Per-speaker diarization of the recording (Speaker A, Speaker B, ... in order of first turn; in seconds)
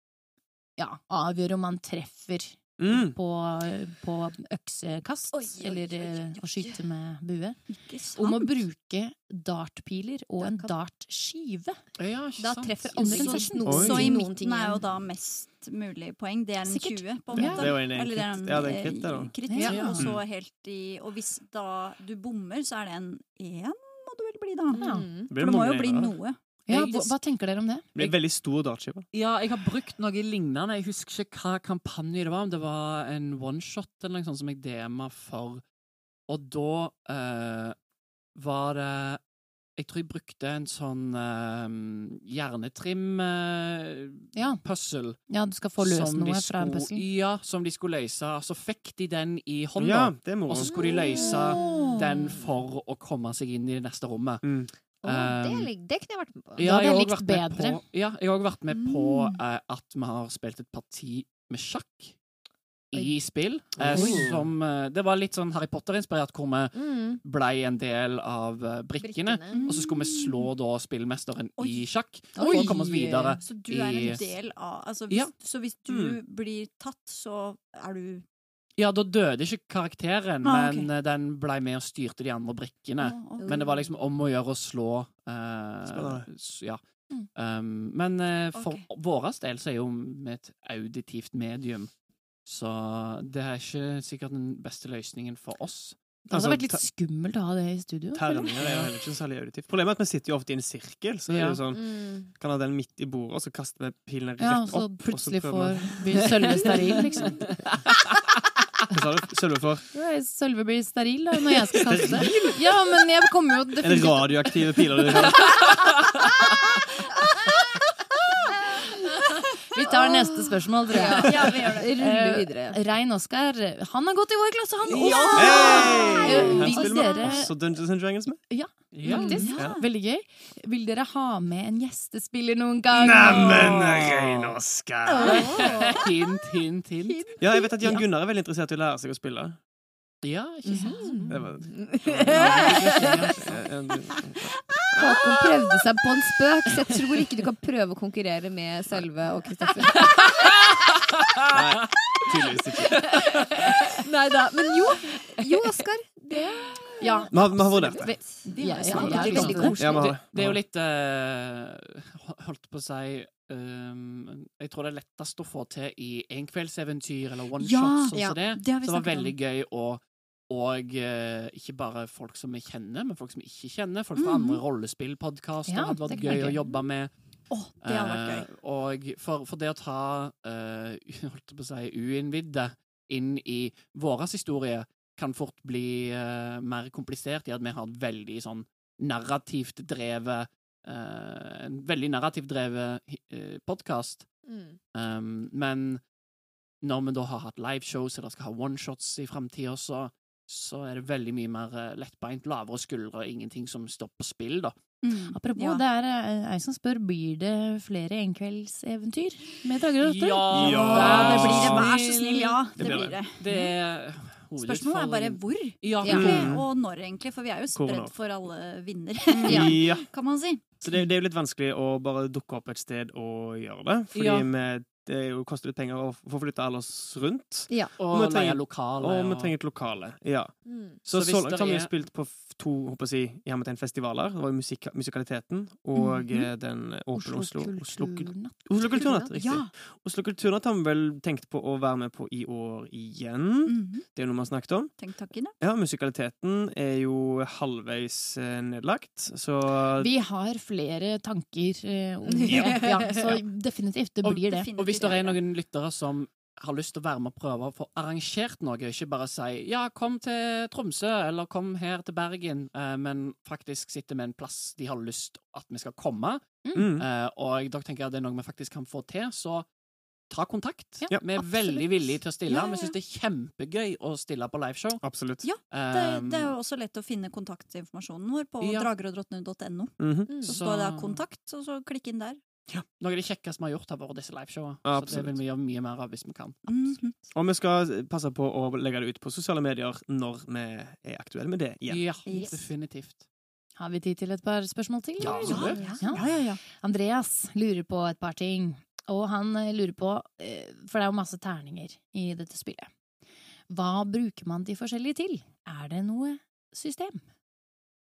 Speaker A: 0.8-11.8, 12.9-14.0, 16.6-17.7, 19.5-20.0, 24.7-25.1, 26.7-28.1, 44.3-44.7, 45.3-47.0, 56.6-57.8, 72.3-73.4, 96.3-98.5, 104.4-107.5, 109.9-114.3, 119.7-125.5, 126.2-127.5, 128.5-133.8, 140.7-141.3, 157.0-157.3, 158.4-159.8, 175.7-176.6, 205.3-210.8, 237.1-238.6, 250.0-254.7, 271.0-272.2, 293.8-302.9, 303.7-307.2
Speaker B: 2.8-3.2, 13.6-14.2, 17.3-19.3, 25.3-26.1, 27.9-29.1, 49.8-50.9, 54.4-54.7, 63.8-64.5, 75.9-76.2, 85.8-86.3, 96.3-96.8, 98.1-106.3, 108.9-109.9, 111.8-112.6, 113.8-115.6, 125.3-128.4, 129.5-129.8, 132.9-136.0, 137.4-139.6, 141.3-142.7, 143.4-145.1, 151.5-153.1, 157.3-158.2, 159.8-160.6, 210.5-211.9, 212.8-213.2, 216.1-216.7, 217.7-218.1, 219.4-220.1, 220.8-245.0, 245.6-250.1, 252.5-252.8, 266.7-267.1, 275.0-275.5, 280.0-280.4, 284.8-285.4, 287.3-292.2, 295.2-296.3
Speaker C: 5.3-6.8, 10.4-10.7, 12.4-14.9, 24.7-25.3, 50.6-51.9, 55.0-56.7, 66.7-67.2, 69.0-69.7, 72.3-72.7, 83.4-83.7, 101.7-102.3, 119.9-122.8, 124.9-127.1, 129.1-129.5, 135.1-136.0, 137.0-138.0, 140.6-143.4, 144.9-150.3, 154.0-160.2, 168.1-168.4, 194.4-194.8, 216.0-216.5, 219.4-219.7, 227.7-227.9, 230.6-231.0, 238.8-239.6, 252.3-253.3, 280.3-280.6, 295.5-296.1
Speaker D: 7.7-8.6, 13.0-27.1, 51.4-52.2, 58.7-59.4, 69.5-70.5, 71.6-72.0, 73.4-78.2, 80.4-80.9, 83.0-83.7, 88.5-88.8, 121.0-121.9, 124.9-127.3, 129.1-129.8, 158.4-159.8, 167.6-169.3, 174.2-174.6, 177.5-178.5, 205.0-205.8, 210.6-213.6, 214.6-220.7, 235.9-236.4, 239.4-239.7, 243.7-244.1, 245.0-245.6, 254.2-255.4, 272.5-272.9, 275.4-282.4, 286.6-287.2, 292.2-292.7, 295.5-296.6
Speaker E: 12.0-13.0, 19.6-20.0, 29.1-35.6, 36.3-37.8, 38.3-39.2, 39.8-55.7, 56.5-62.2, 62.9-74.4, 78.8-86.8, 87.3-91.9, 92.4-96.0, 98.6-98.9, 101.3-101.6, 107.2-108.1, 124.9-125.4, 128.9-129.5, 133.3-134.5, 135.3-137.3, 140.2-141.4, 142.2-143.7, 159.4-177.2, 177.8-194.3, 194.9-196.0, 196.8-204.8, 210.0-216.5, 224.1-224.5, 228.0-229.6, 231.1-231.9, 254.8-269.7, 270.3-276.6, 278.6-278.9, 280.5-281.2, 283.0-287.0, 291.9-293.2, 295.2-295.9